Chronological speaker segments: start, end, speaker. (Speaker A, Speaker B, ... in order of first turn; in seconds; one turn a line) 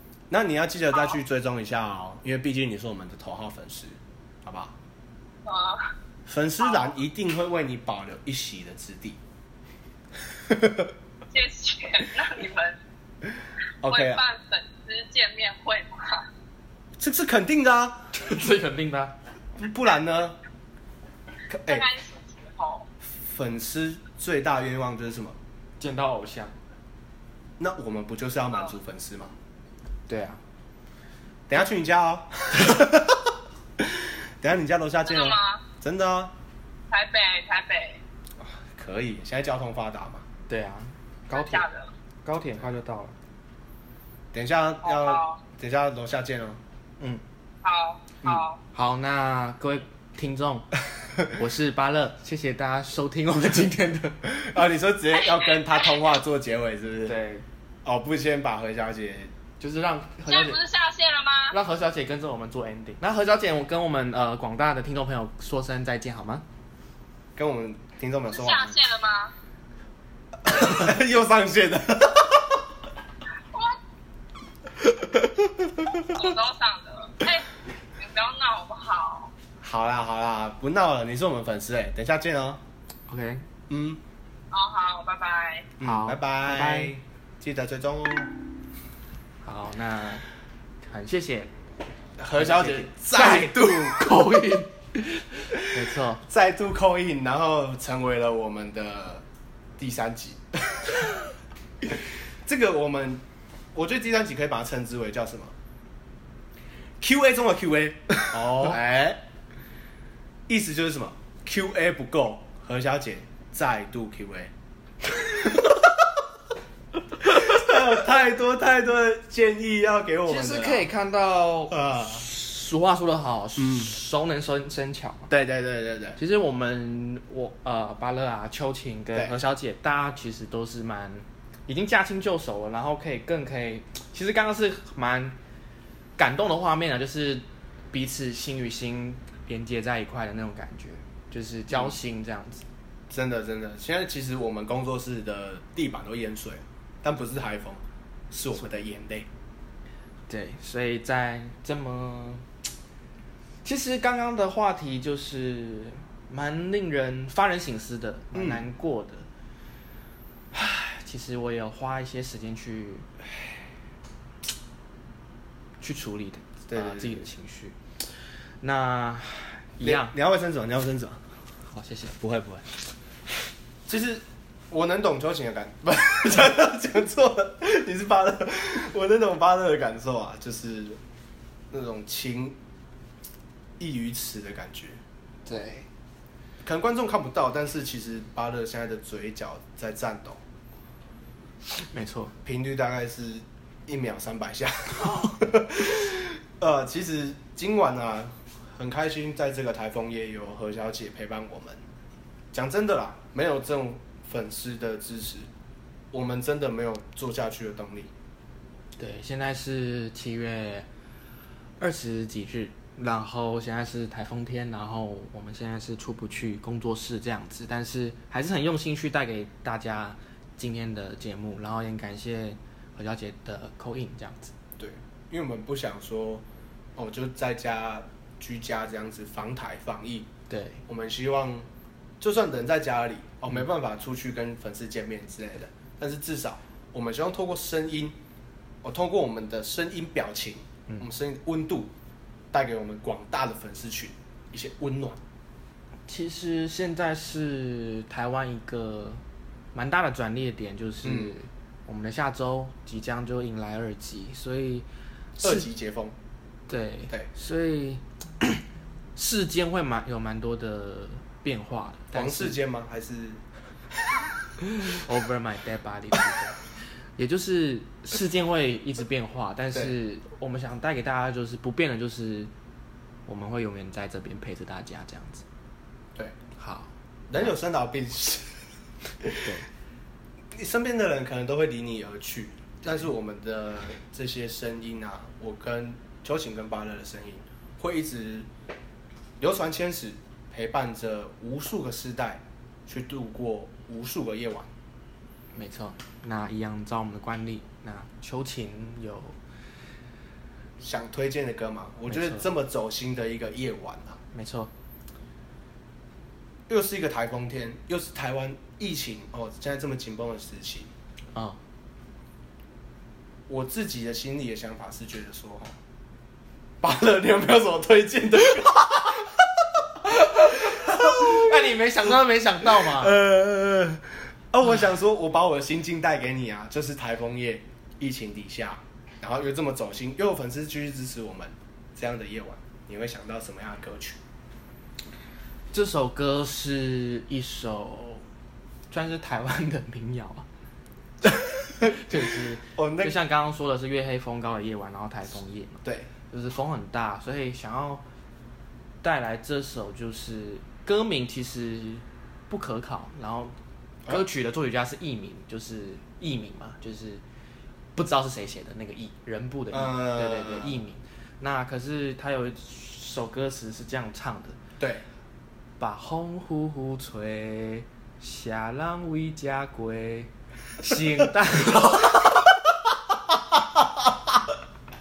Speaker A: 0.3-4.8
Speaker B: 5.5-5.9
Speaker A: 6.3-9.2
Speaker B: 6.6-6.9
Speaker A: 10.4-10.9
Speaker B: 11.3-12.8
Speaker A: 13.8-14.2
Speaker B: 13.8-16.3
Speaker A: 17.0-18.1
Speaker C: 18.1-19.1
Speaker A: 19.6-20.4
Speaker A: 21.5-21.9
Speaker B: 21.7-22.9
Speaker A: 23.0-25.4
Speaker C: 25.8-26.5
Speaker A: 27.6-29.3
Speaker C: 30.1-30.4
Speaker A: 31.5-36.3
Speaker B: 35.0-35.6
Speaker B: 36.9-38.0
Speaker A: 38.4-40.2
Speaker C: 40.5-41.7
Speaker B: 41.3-41.9
Speaker C: 42.3-43.1
Speaker A: 44.3-46.6
Speaker B: 44.9-45.4
Speaker B: 47.6-48.6
Speaker C: 48.7-50.7
Speaker C: 51.2-54.2
Speaker A: 54.2-57.2
Speaker C: 57.1-57.5
Speaker A: 57.9-59.3
Speaker C: 59.6-60.6
Speaker B: 60.3-61.6
Speaker C: 61.5-66.4
Speaker A: 67.4-68.8
Speaker B: 68.3-69.3
Speaker A: 70.4-72.6
Speaker B: 73.5-73.8
Speaker A: 75.0-76.3
Speaker B: 76.1-79.3
Speaker A: 79.6-82.6
Speaker C: 83.1-83.5
Speaker A: 83.7-84.0
Speaker B: 84.5-85.7
Speaker A: 85.8-88.3
Speaker C: 85.8-86.9
Speaker C: 89.4-90.3
Speaker C: 90.8-91.5
Speaker A: 92.2-94.4
Speaker C: 92.4-96.2
Speaker A: 95.5-99.2
Speaker A: 99.8-101.2
Speaker A: 101.8-103.2
Speaker A: 103.7-105.5
Speaker A: 107.0-109.2
Speaker A: 110.5-114.5
Speaker A: 115.1-116.1
Speaker A: 117.2-120.9
Speaker C: 120.3-125.3
Speaker A: 121.7-122.2
Speaker A: 123.6-123.9
Speaker A: 125.3-126.2
Speaker C: 126.2-135.4
Speaker C: 136.2-142.7
Speaker A: 141.7-142.0
Speaker A: 143.1-149.3
Speaker C: 150.3-152.4
Speaker C: 153.6-159.3
Speaker A: 158.3-158.7
Speaker C: 160.5-163.1
Speaker C: 165.8-170.2
Speaker A: 166.7-167.2
Speaker A: 169.8-171.2
Speaker C: 171.7-172.2
Speaker A: 172.2-172.7
Speaker A: 173.9-181.0
Speaker A: 181.7-182.6
Speaker A: 183.8-185.0
Speaker C: 185.5-185.9
Speaker A: 186.7-190.4
Speaker C: 191.7-192.3
Speaker A: 192.4-201.8
Speaker A: 202.5-205.5
Speaker A: 206.1-208.1
Speaker C: 209.0-210.9
Speaker C: 211.8-224.5
Speaker A: 224.8-226.4
Speaker A: 227.0-230.3
Speaker C: 230.5-230.8
Speaker A: 230.9-231.7
Speaker A: 232.2-238.2
Speaker A: 238.8-241.9
Speaker A: 242.5-245.2
Speaker C: 246.1-249.2
Speaker C: 249.7-254.9
Speaker A: 251.0-251.3
Speaker C: 255.4-255.7
Speaker A: 255.4-256.1
Speaker C: 256.7-258.6
Speaker C: 259.2-262.6
Speaker A: 262.1-263.4
Speaker C: 264.6-266.6
Speaker C: 267.2-272.5
Speaker C: 273.3-275.4
Speaker C: 276.6-277.5
Speaker A: 277.3-278.6
Speaker A: 279.2-279.5
Speaker C: 279.4-279.7
Speaker A: 280.5-288.5
Speaker A: 289.4-294.7
Speaker C: 295.5-299.4
Speaker A: 300.8-304.2
Speaker C: 302.1-302.5
Speaker C: 304.3-304.7
Speaker A: 306.7-310.9
Speaker C: 311.3-311.6
Speaker A: 313.5-315.8
Speaker A: 316.8-321.8
Speaker C: 320.3-323.2
Speaker A: 322.6-334.2
Speaker C: 335.7-338.2
Speaker C: 338.9-340.4
Speaker A: 341.2-342.2
Speaker C: 341.8-348.0
Speaker A: 342.8-343.1
Speaker A: 345.8-346.1
Speaker C: 349.0-353.5
Speaker C: 354.1-357.2
Speaker C: 358.0-364.6
Speaker A: 359.7-360.8
Speaker A: 364.8-365.0
Speaker C: 365.8-372.4
Speaker A: 373.8-374.1